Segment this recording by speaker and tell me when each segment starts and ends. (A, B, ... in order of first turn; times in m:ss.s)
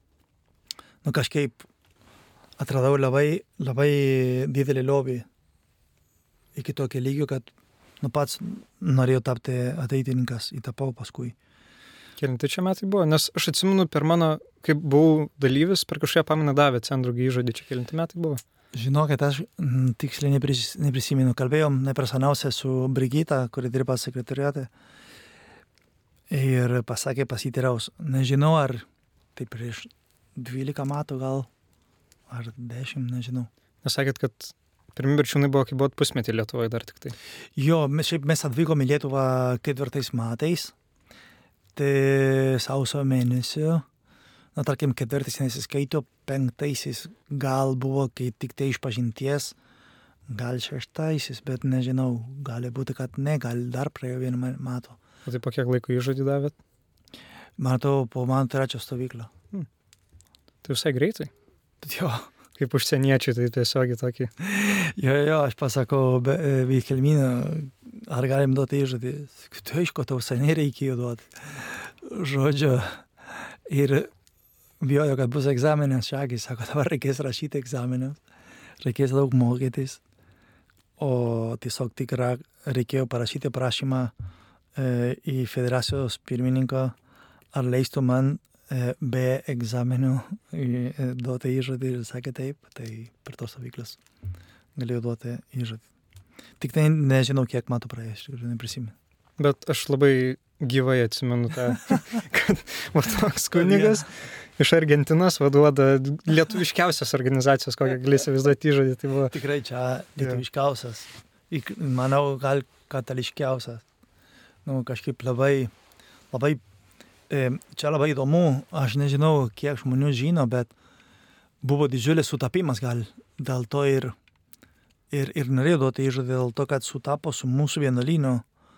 0:01.0-0:01.6 A
0:02.6-0:05.2 A
0:06.5-0:11.3 A
0:12.2-0:18.4 B
0:18.7-0:24.7 A
0:26.3-0:28.8 A
0:29.4-0:31.5 A
0:32.3-0:33.5 A
0:33.8-0:37.1 B
0:37.6-0:40.7 A
0:41.8-0:43.8 A
0:44.5-0:49.5 A
0:50.3-0:55.0 A
0:55.2-0:56.5 B
0:57.6-0:59.3 A
1:00.6-1:01.3 B
1:01.8-1:02.3 A
1:02.6-1:04.3 B
1:04.4-1:14.1 A
1:14.8-1:18.2 A
1:18.8-1:20.0 A
1:21.0-1:24.1 A
1:24.8-1:26.9 A
1:27.5-1:34.0 A
1:34.8-1:35.8 A
1:36.6-1:38.9 A
1:39.4-1:49.3 B
1:43.5-1:44.0 A
1:49.3-1:53.8 A
1:54.6-1:55.7 A
1:56.3-1:56.6 A
1:57.3-2:00.7 A
2:01.6-2:04.1 A
2:05.1-2:08.4 A